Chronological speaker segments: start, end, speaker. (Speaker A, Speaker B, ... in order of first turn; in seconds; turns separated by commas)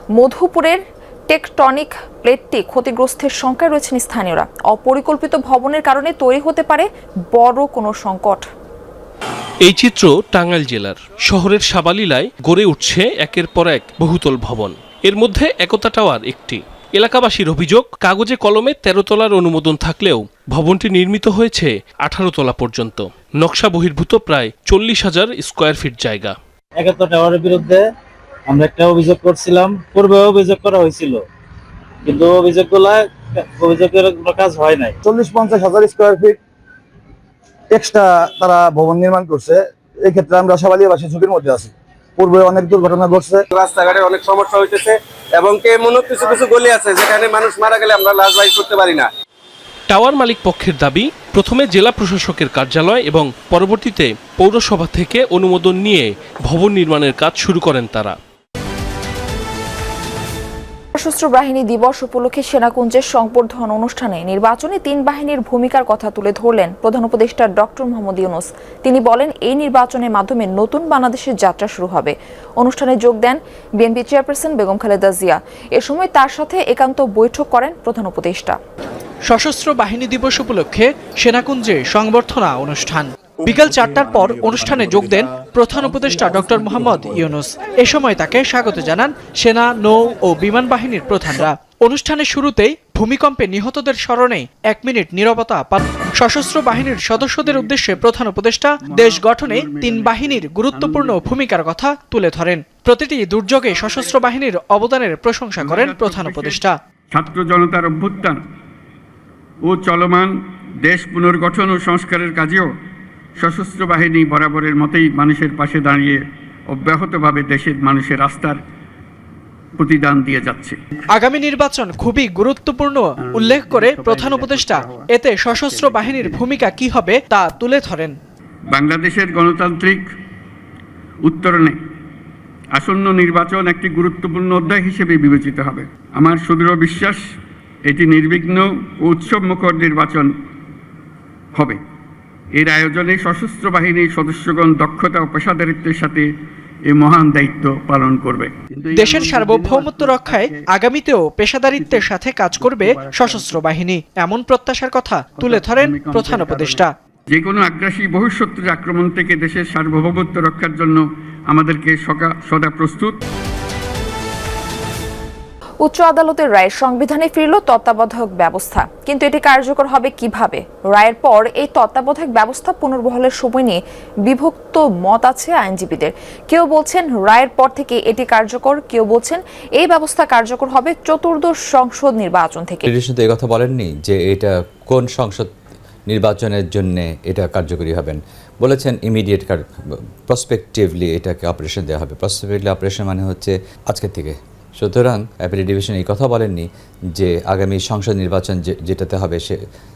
Speaker A: 0.2-8.4, Speaker B: 9.7-26.3, Speaker C: 26.8-27.8, Speaker C: 28.5-31.2, Speaker C: 32.1-35.0, Speaker D: 35.1-36.3, Speaker D: 37.8-39.5, Speaker D: 40.1-41.6, Speaker D: 42.2-43.2, Speaker E: 43.5-49.1, Speaker B: 49.9-58.1, Speaker A: 61.0-78.6, Speaker F: 79.3-106.8, Speaker G: 97.2-98.1, Speaker G: 98.9-101.3, Speaker G: 105.6-108.4, Speaker G: 109.7-110.3, Speaker G: 110.8-112.7, Speaker G: 113.4-118.6, Speaker G: 119.8-120.8, Speaker F: 121.1-128.2, Speaker G: 123.3-125.1, Speaker G: 125.6-126.5, Speaker G: 128.7-130.0, Speaker G: 131.2-131.8, Speaker G: 132.7-137.2, Speaker G: 137.9-140.3, Speaker G: 142.6-146.3, Speaker G: 146.9-150.6, Speaker F: 148.9-156.9, Speaker G: 151.7-153.6, Speaker G: 155.4-163.2, Speaker A: 165.9-182.9, Speaker H: 182.9-185.5, Speaker H: 186.1-199.6